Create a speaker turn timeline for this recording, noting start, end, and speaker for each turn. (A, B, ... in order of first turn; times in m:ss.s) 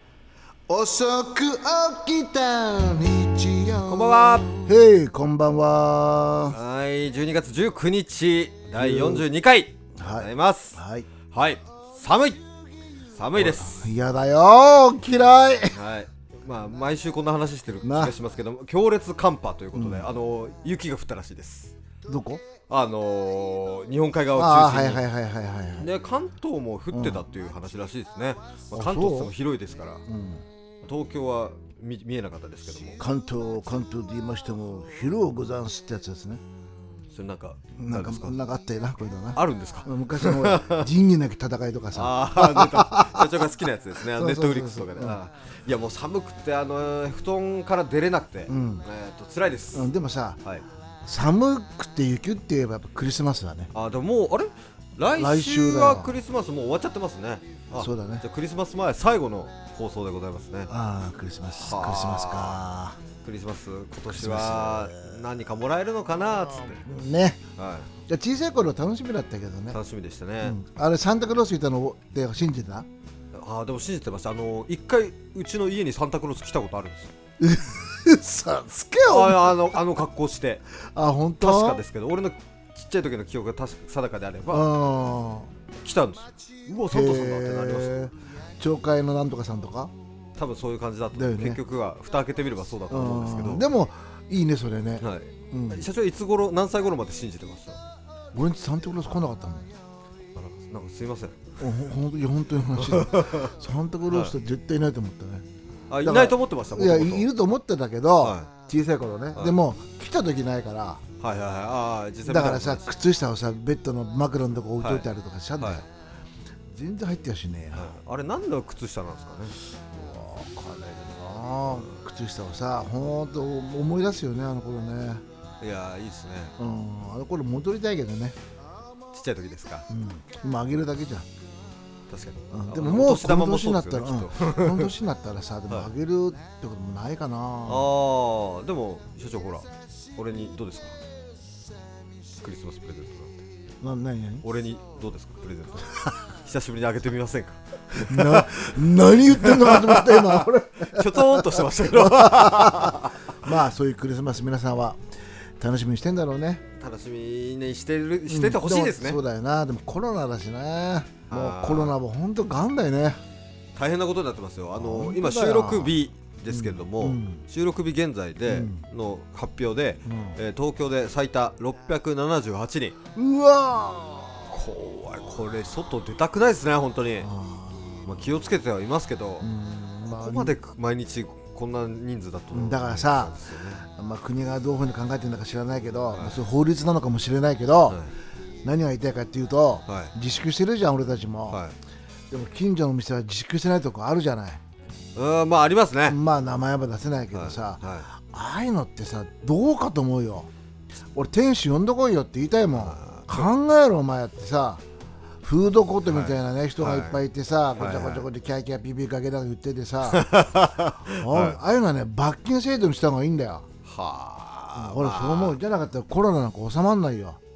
0:00.7-0:06.6 A
0:03.8-0:04.6 B
0:06.5-0:10.8 B
0:08.8-0:09.3 A
0:09.9-0:11.1 A
0:11.3-0:12.4 B
0:13.1-0:13.9 B
0:13.3-0:15.8 A
0:15.7-0:21.7 B
0:17.8-0:18.2 A
0:19.7-0:20.1 A
0:22.1-0:22.4 A
0:22.7-0:25.0 B
0:24.3-0:25.9 A
0:25.8-0:30.0 B
0:26.9-0:27.2 A
0:28.7-0:29.3 A
0:30.1-0:30.4 A
0:30.8-0:33.0 B
0:33.0-0:36.4 A
0:37.1-0:38.4 B
0:37.8-0:43.5 A
0:39.3-0:40.9 B
0:41.9-0:49.9 B
0:44.0-0:45.2 A
0:48.5-0:48.8 A
0:49.7-0:50.4 A
0:51.0-0:53.7 A
0:53.7-1:00.7 B
0:55.1-0:56.1 A
0:57.7-0:58.2 A
1:00.7-1:03.0 A
1:01.5-1:02.6 B
1:03.2-1:06.9 B
1:04.1-1:05.2 A
1:06.7-1:07.4 A
1:07.6-1:07.9 B
1:08.1-1:09.8 A
1:09.7-1:10.6 B
1:10.4-1:12.9 A
1:13.3-1:17.1 B
1:17.4-1:19.8 A
1:19.0-1:20.6 B
1:20.9-1:21.8 A
1:21.4-1:24.7 B
1:24.5-1:25.5 A
1:25.8-1:28.1 B
1:26.8-1:29.9 A
1:30.4-1:33.6 B
1:31.1-1:31.6 A
1:32.9-1:35.9 A
1:35.0-1:37.8 B
1:38.3-1:39.7 A
1:40.3-1:41.4 B
1:41.6-1:45.4 A
1:42.8-1:43.5 B
1:44.1-1:44.4 B
1:45.9-1:47.3 B
1:46.0-1:51.0 A
1:48.2-1:48.5 B
1:51.2-1:53.0 B
1:52.2-1:55.9 A
1:54.8-1:55.1 B
1:55.6-1:55.8 B
1:56.7-1:57.9 A
1:57.7-1:59.6 B
1:59.9-2:05.2 A
2:05.6-2:06.5 B
2:06.6-2:08.4 A
2:09.1-2:09.9 B
2:09.9-2:11.3 A
2:12.1-2:14.9 B
2:12.5-2:17.9 A
2:17.6-2:21.0 B
2:22.4-2:23.4 B
2:23.8-2:24.4 A
2:24.4-2:28.7 B
2:28.0-2:35.0 A
2:29.4-2:33.3 B
2:35.6-2:36.6 A
2:36.8-2:39.2 B
2:38.3-2:43.2 A
2:41.3-2:41.9 B
2:43.7-2:53.0 B
2:44.7-2:47.4 A
2:48.5-2:48.8 A
2:50.0-2:50.4 A
2:53.1-2:54.6 A
2:54.5-2:57.3 B
2:57.2-2:58.1 A
2:58.0-2:59.5 B
2:59.4-3:00.6 A
3:00.1-3:03.8 B
3:02.5-3:08.0 A
3:06.1-3:06.4 B
3:07.9-3:08.1 B
3:08.6-3:11.6 A
3:09.9-3:10.1 B
3:11.5-3:11.7 B
3:12.3-3:14.6 A
3:15.1-3:16.2 B
3:16.1-3:20.5 A
3:17.3-3:18.0 B
3:21.1-3:24.8 A
3:22.8-3:23.4 B
3:25.4-3:33.7 A
3:26.1-3:27.2 B
3:27.8-3:28.2 B
3:30.0-3:31.6 B
3:33.8-3:35.6 B
3:34.8-3:37.4 A